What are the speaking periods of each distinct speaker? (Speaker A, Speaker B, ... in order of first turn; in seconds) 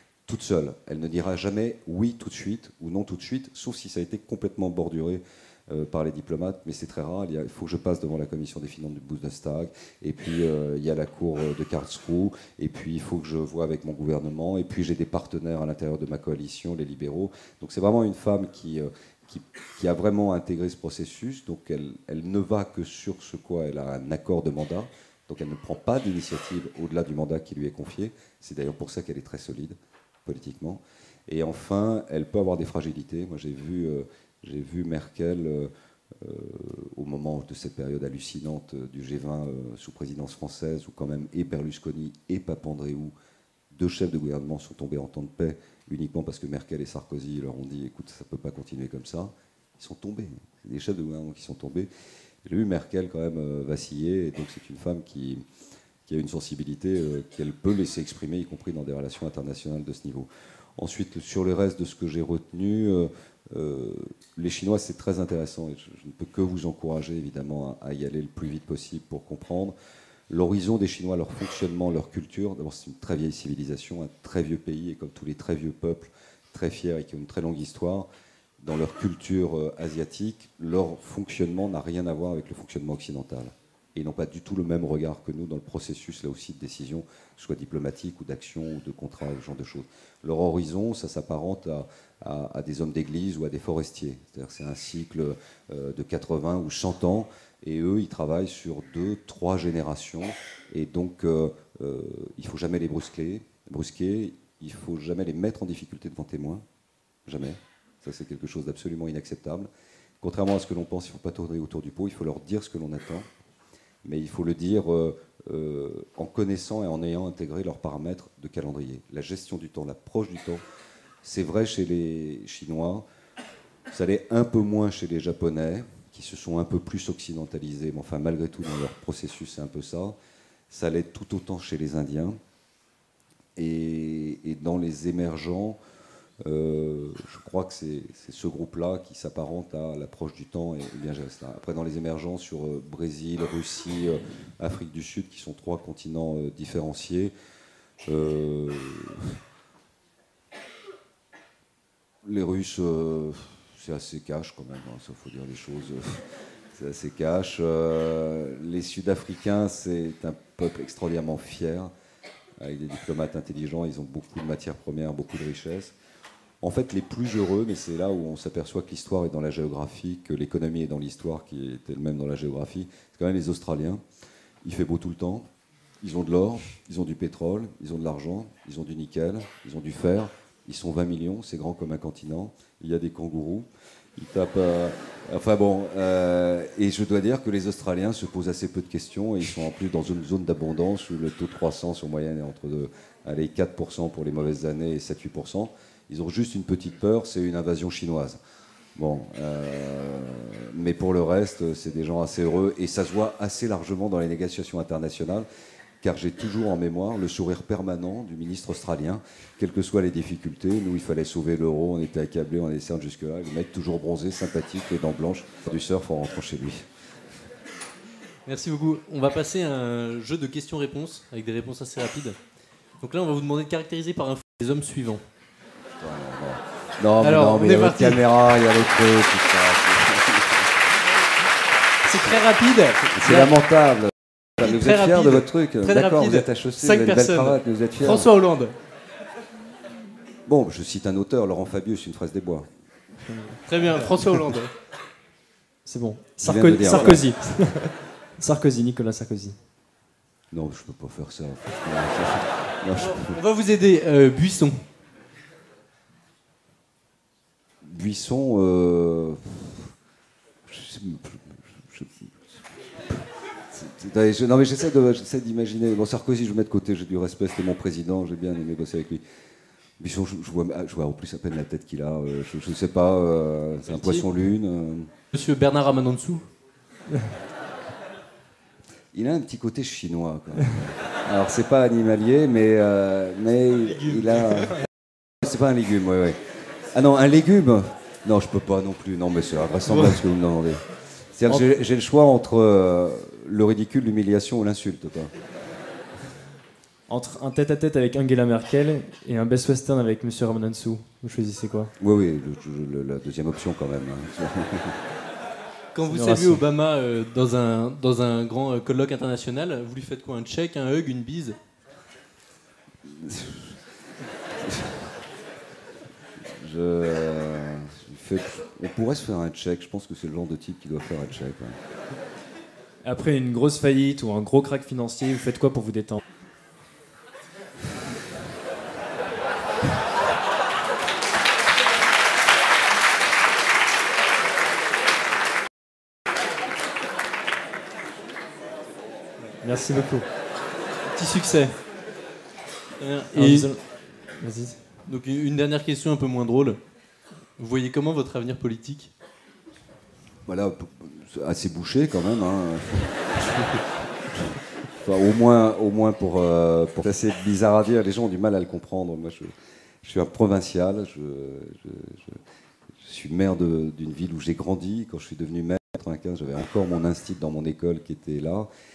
Speaker A: 0.3-43.1, 43.7-51.9, 52.5-55.5, 56.1-69.8, 70.3-78.1, 78.6-106.7, 107.3-109.7, 110.2-113.3, 114.0-120.6, 121.2-123.0, 123.9-130.2, 130.7-132.4, 133.6-135.8, 136.4-147.3, 148.0-149.4, 152.2-161.9, 162.6-165.9, 166.6-174.0, 174.6-175.5, 176.0-198.4, 198.9-205.5, 206.0-216.9, 226.0-230.8, 233.1-238.3, 240.5-242.7, 246.4-247.6, 250.5-253.4, 257.8-259.9, 260.7-269.2, 270.0-275.1, 279.1-284.9, 285.4-286.4, 286.9-295.4, 302.0-305.0, 313.0-313.8, 314.5-315.1, 316.4-321.8, 350.4-354.4, 355.0-362.4, 362.9-368.7
Speaker B: 218.5-222.4, 223.0-225.2, 227.2-228.2, 232.1-233.5, 234.6-238.7, 243.7-244.7, 252.9-254.8, 273.9-274.3, 275.3-276.5, 305.9-311.6, 343.0-343.9, 345.0-346.8, 347.6-349.1
Speaker C: 243.3-244.1, 245.8-249.6, 297.1-301.9, 306.1-306.6, 323.0-326.2, 339.4-340.3, 341.1-341.8, 343.3-344.9